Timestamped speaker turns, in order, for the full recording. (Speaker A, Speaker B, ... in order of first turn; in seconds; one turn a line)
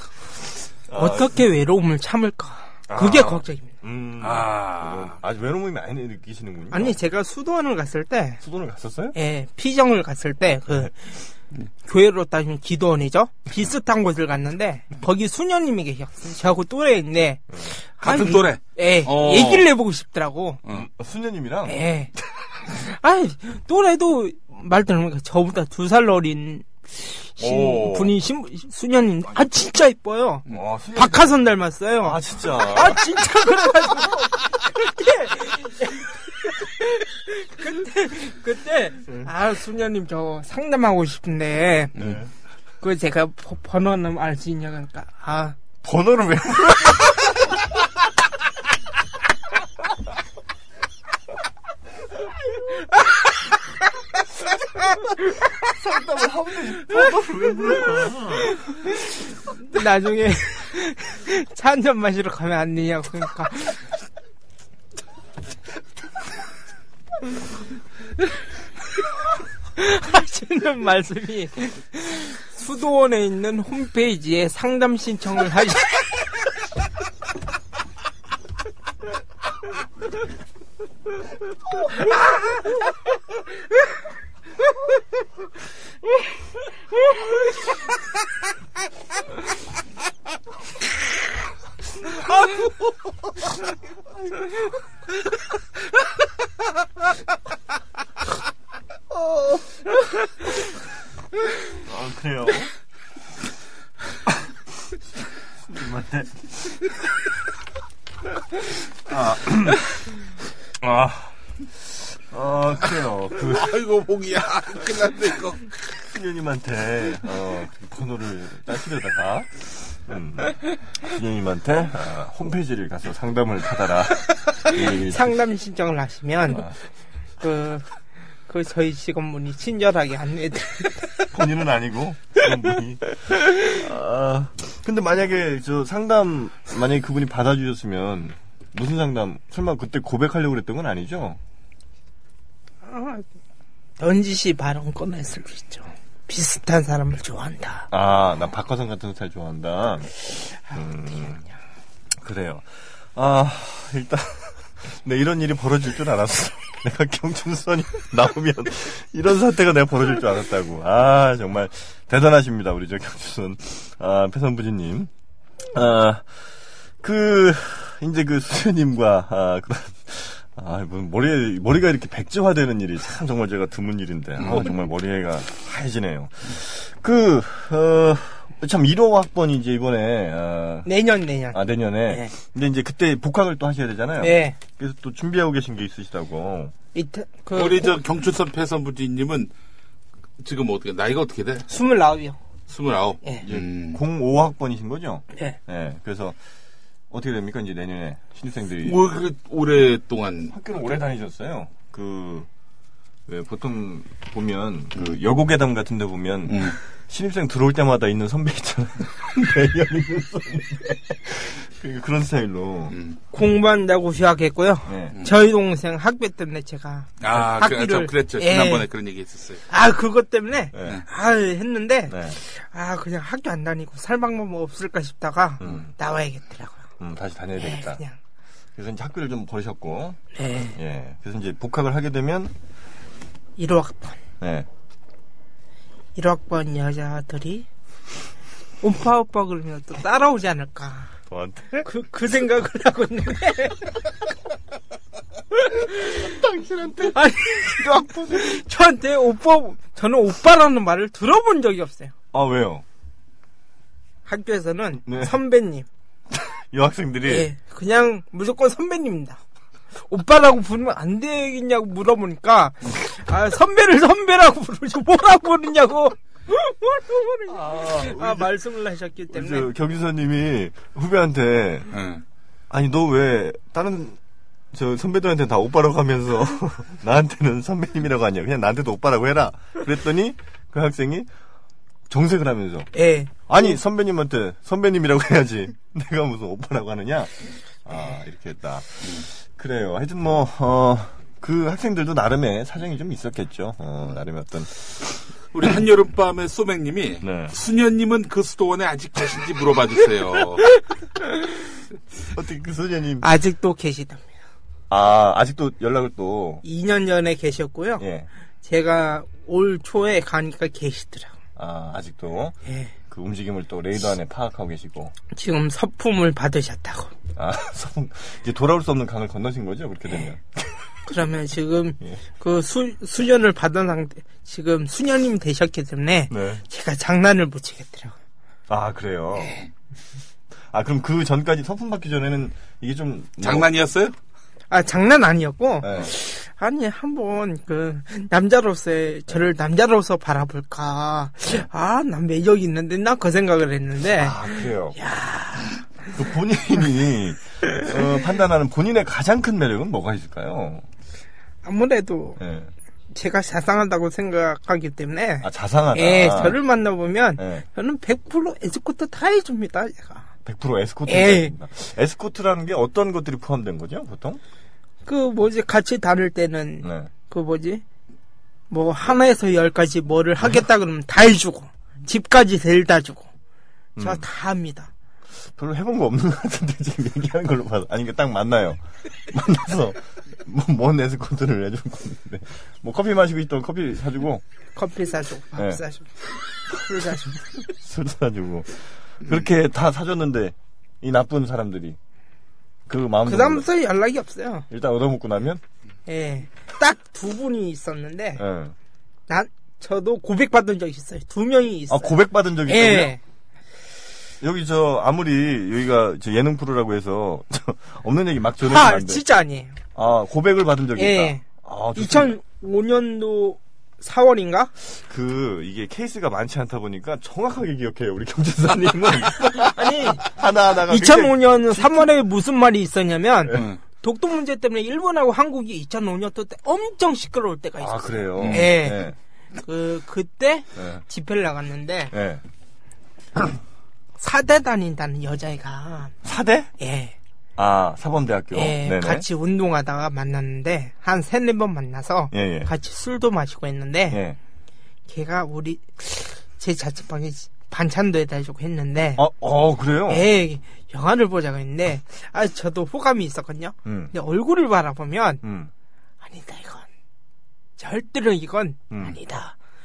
Speaker A: 0.9-1.4
Speaker B: 0.9-3.7
Speaker A: 2.9-7.0
Speaker C: 4.2-5.2
Speaker B: 6.7-8.4
Speaker A: 8.4-9.2
Speaker B: 9.1-10.9
Speaker B: 11.8-20.6
Speaker C: 18.0-19.7
Speaker A: 20.7-21.9
Speaker B: 21.7-22.1
Speaker B: 22.6-42.0
Speaker C: 27.4-28.1
Speaker A: 30.5-31.3
Speaker A: 32.0-33.1
Speaker A: 42.0-42.3
Speaker B: 42.8-45.6
Speaker A: 45.8-47.6
Speaker A: 55.5-58.6
Speaker B: 59.5-63.8
Speaker B: 69.8-76.1
Speaker A: 99.1-99.7
Speaker A: 101.7-102.7
Speaker A: 105.6-106.9
Speaker A: 109.0-110.2
Speaker A: 110.8-113.8
Speaker C: 113.5-115.7
Speaker A: 116.0-125.4
Speaker B: 124.8-126.7
Speaker B: 127.4-127.9
Speaker B: 128.5-131.1
Speaker A: 131.3-141.4
Speaker B: 142.8-143.3
Speaker B: 144.0-147.9
Speaker A: 147.9-151.5
Speaker B: 150.7-151.3
Speaker A: 152.2-165.1
Speaker A: 165.7-180.9
Speaker B: 180.8-182.3
Speaker A: 181.5-186.7
Speaker B: 184.2-184.6
Speaker B: 186.9-188.0
Speaker C: 187.6-189.5
Speaker C: 190.4-191.7
Speaker B: 191.7-192.4
Speaker C: 192.7-194.0
Speaker A: 193.4-196.4
Speaker A: 197.1-199.0
Speaker C: 198.8-200.5
Speaker A: 200.5-202.5
Speaker A: 203.3-213.0
Speaker C: 206.5-206.8
Speaker C: 212.9-213.2
Speaker B: 213.3-218.9
Speaker A: 214.9-215.2
Speaker C: 217.2-219.6
Speaker B: 219.7-226.9
Speaker A: 220.7-221.0
Speaker A: 222.1-222.4
Speaker A: 225.6-225.9
Speaker A: 227.0-228.0
Speaker B: 227.6-228.2
Speaker A: 228.8-230.2
Speaker B: 230.3-230.8
Speaker A: 230.8-232.5
Speaker B: 233.6-234.2
Speaker A: 234.4-234.7
Speaker B: 236.2-237.7
Speaker B: 238.8-241.1
Speaker A: 241.3-241.9
Speaker B: 241.8-244.0
Speaker B: 245.7-246.3
Speaker A: 246.0-248.6
Speaker B: 247.1-252.1
Speaker A: 252.3-252.8
Speaker B: 254.3-255.9
Speaker A: 255.1-255.4
Speaker A: 256.3-257.5
Speaker B: 257.3-259.4
Speaker B: 260.1-269.7
Speaker A: 267.5-268.5
Speaker A: 269.3-271.9
Speaker C: 271.9-272.2
Speaker A: 272.7-274.2
Speaker A: 274.7-281.3
Speaker A: 282.1-282.9
Speaker B: 282.9-283.3
Speaker A: 283.5-294.7
Speaker C: 295.5-300.7
Speaker A: 297.2-297.6
Speaker A: 302.3-303.3
Speaker B: 303.2-304.4
Speaker A: 304.9-306.6
Speaker B: 306.6-308.0
Speaker A: 308.0-308.3
Speaker B: 308.6-311.4
Speaker A: 311.6-312.6
Speaker B: 312.6-312.9
Speaker A: 313.1-315.1
Speaker B: 315.3-317.1
Speaker A: 317.4-320.7
Speaker B: 321.1-328.2
Speaker A: 326.3-326.6
Speaker A: 328.7-329.6
Speaker A: 330.7-333.7
Speaker C: 333.4-334.1
Speaker B: 334.7-345.8
Speaker A: 335.8-336.1
Speaker A: 344.2-345.0
Speaker A: 346.1-350.9
Speaker B: 351.6-352.4
Speaker A: 352.4-352.7
Speaker B: 353.1-360.3
Speaker A: 355.4-356.6
Speaker A: 357.4-357.6
Speaker A: 360.4-364.4
Speaker B: 361.1-361.5
Speaker B: 365.1-367.8
Speaker A: 366.8-367.1
Speaker B: 368.7-373.3
Speaker A: 374.0-374.2
Speaker B: 374.0-374.9
Speaker A: 375.6-384.4
Speaker B: 384.8-386.1
Speaker A: 385.6-385.8
Speaker B: 386.7-387.4
Speaker A: 387.6-392.0
Speaker A: 392.9-393.7
Speaker B: 393.3-394.7
Speaker A: 394.7-395.6
Speaker B: 396.1-398.4
Speaker A: 398.4-398.8
Speaker B: 399.3-403.2
Speaker A: 401.9-403.1
Speaker A: 404.4-409.2
Speaker B: 408.6-409.8
Speaker A: 409.9-412.4
Speaker B: 411.0-411.4
Speaker B: 412.0-414.7
Speaker A: 414.9-422.1
Speaker B: 419.6-420.3
Speaker B: 420.9-429.1
Speaker A: 427.8-429.2
Speaker C: 428.4-428.7
Speaker B: 429.6-432.1
Speaker A: 430.8-431.0
Speaker A: 432.1-432.4
Speaker B: 434.2-436.1
Speaker A: 436.2-436.7
Speaker B: 436.8-437.1
Speaker A: 437.6-439.2
Speaker B: 438.5-444.2
Speaker A: 442.3-442.7
Speaker A: 444.1-444.4
Speaker B: 445.1-449.2
Speaker A: 449.2-450.3
Speaker B: 450.1-455.4
Speaker A: 453.9-454.1
Speaker A: 455.4-455.7
Speaker B: 456.2-456.9
Speaker B: 457.8-459.6
Speaker A: 458.9-459.2